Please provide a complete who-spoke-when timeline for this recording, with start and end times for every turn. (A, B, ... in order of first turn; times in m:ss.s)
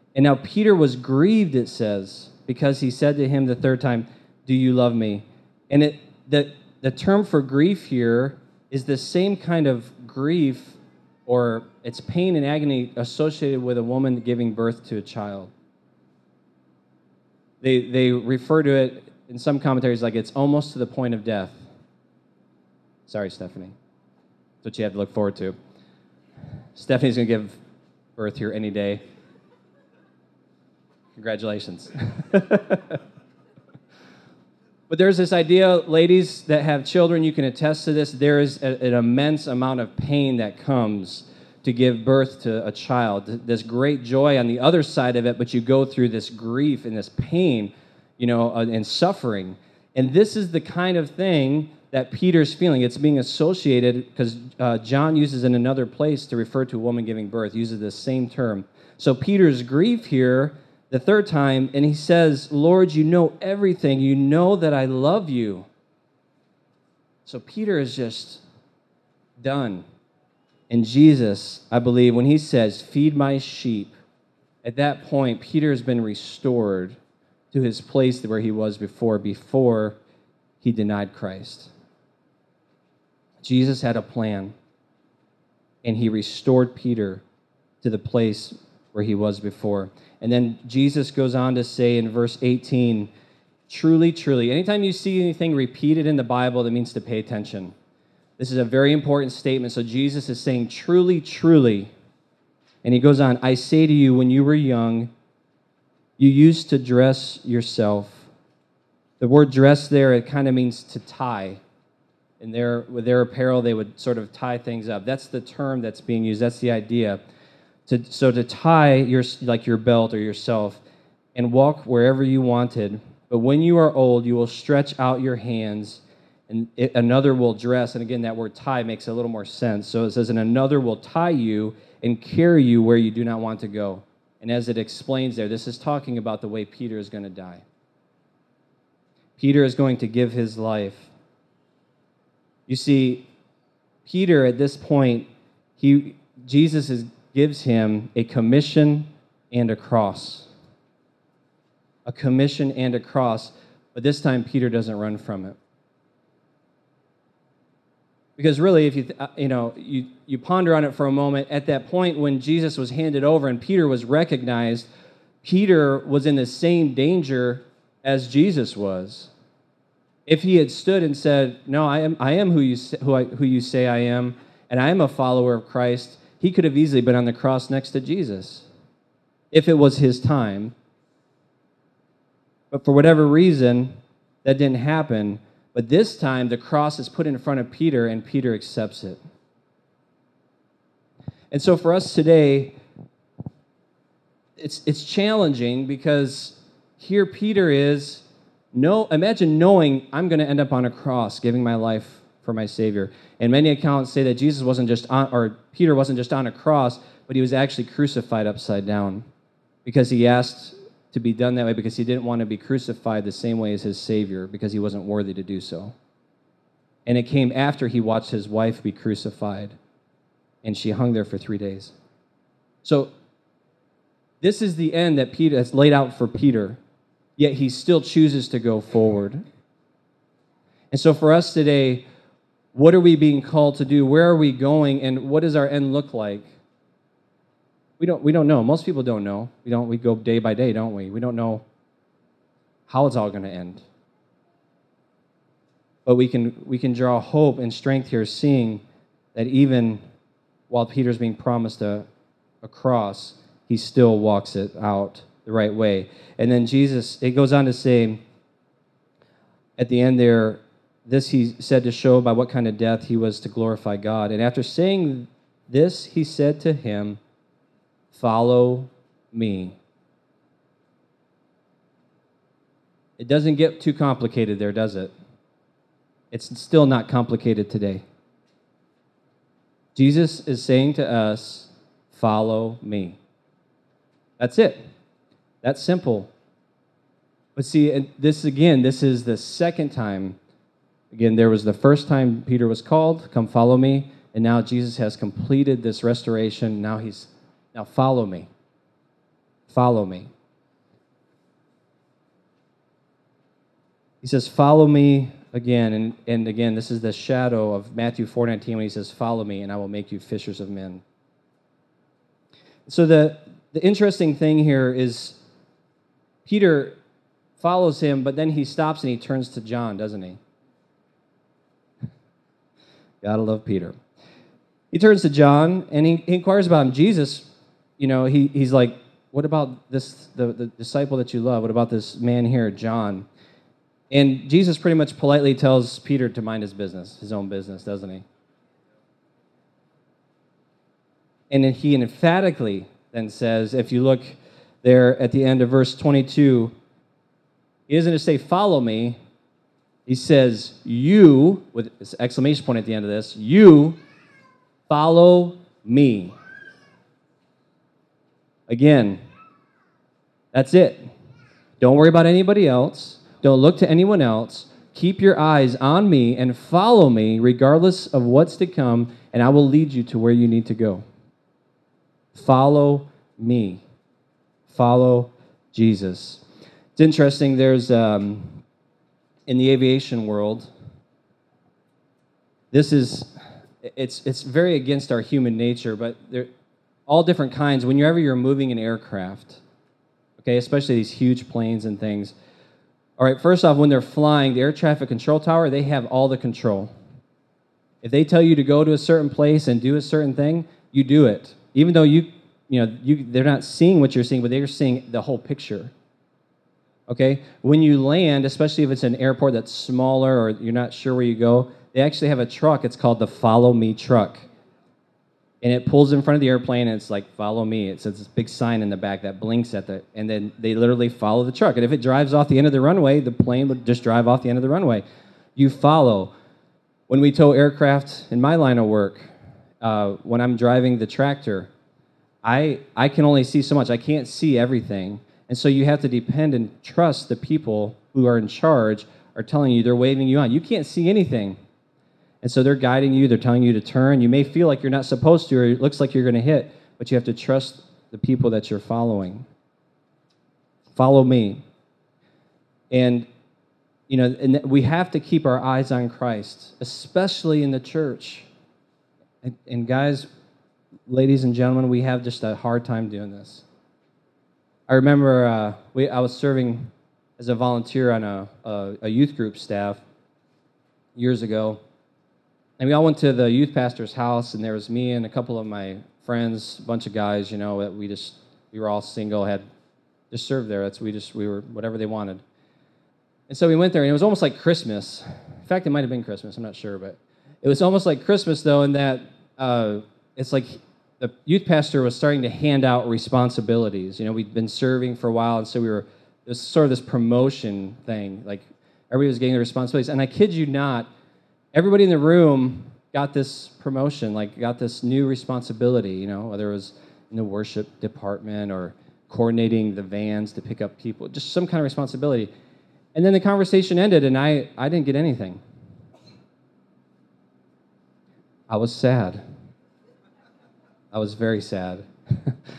0:00.2-0:15.5 A
0:17.6-0:21.6 A
0:23.1-0:23.8 A
0:24.6-0:25.6 A
0:26.8-0:27.6 A
0:28.2-0:29.0 A
0:31.2-0:33.0 A
0:34.9-1:05.7 A
1:07.3-1:08.4 A
1:09.4-1:09.8 A
1:10.7-1:14.0 A
1:14.6-1:17.0 A
1:17.5-1:20.0 A
1:20.6-1:21.7 A
1:23.4-1:24.5 A
1:25.8-1:27.2 A
1:27.8-1:33.1 A
1:33.7-1:37.7 A
1:38.4-1:41.9 A
1:42.8-1:45.1 A
1:46.2-1:48.3 A
1:49.2-1:51.6 A
1:52.4-1:57.2 A
1:57.9-2:00.8 A
2:01.4-2:17.6 A
2:19.4-2:21.1 A
2:22.7-2:23.3 A
2:24.0-2:30.5 A
2:32.1-2:35.6 A
2:38.4-2:44.9 A
2:45.4-2:49.3 A
2:50.3-2:58.7 A
2:59.5-3:00.7 A
3:02.7-3:09.2 A
3:11.5-3:12.8 A
3:14.6-3:29.3 A
3:29.8-3:35.9 A
3:37.1-3:39.8 A
3:40.6-3:41.9 A
3:42.8-3:43.1 A
3:44.4-3:46.8 A
3:47.4-3:49.4 A
3:50.9-3:52.1 A
3:52.7-3:56.5 A
3:58.0-4:01.6 A
4:02.9-4:03.8 A
4:06.1-4:08.8 A
4:09.3-4:10.0 A
4:10.7-4:12.1 A
4:12.6-4:18.2 A
4:19.8-4:27.2 A
4:28.1-4:29.8 A
4:33.2-4:35.1 A
4:36.3-4:38.0 A
4:40.0-4:43.2 A
4:44.4-4:44.8 A
4:45.6-4:46.3 A
4:47.6-4:50.4 A
4:51.1-4:58.5 A
4:59.7-5:00.3 A
5:04.2-5:11.0 A
5:12.9-5:15.4 A
5:16.4-5:17.0 A
5:17.6-5:20.4 A
5:23.2-5:24.0 A
5:24.9-5:27.5 A
5:28.0-5:33.3 A
5:34.1-5:38.2 A
5:41.5-5:46.7 A
5:47.9-5:49.2 A
5:50.1-5:54.0 A
5:54.9-5:56.4 A
5:58.7-5:59.2 A
6:00.5-6:01.0 A
6:01.8-6:11.0 A
6:12.3-6:13.8 A
6:14.7-6:16.4 A
6:17.0-6:18.6 A
6:19.5-6:20.7 A
6:22.7-6:23.3 A
6:23.8-6:26.5 A
6:27.1-6:29.6 A
6:30.4-6:32.3 A
6:33.2-6:36.9 A
6:38.0-6:45.9 A
6:47.1-6:54.5 A
6:55.6-7:05.0 A
7:05.6-7:06.3 A
7:07.1-7:09.3 A
7:09.8-7:11.7 A
7:12.4-7:21.6 A
7:22.4-7:29.5 A
7:30.9-7:31.6 A
7:32.9-7:33.3 A
7:34.1-7:38.5 A
7:39.4-7:40.3 A
7:41.1-7:43.6 A
7:44.9-7:50.0 A
7:51.2-7:51.8 A
7:52.8-7:59.6 A
8:00.3-8:02.4 A
8:03.5-8:21.1 A
8:21.7-8:32.5 A
8:33.2-8:35.6 A
8:38.7-8:39.4 A
8:41.1-8:42.6 A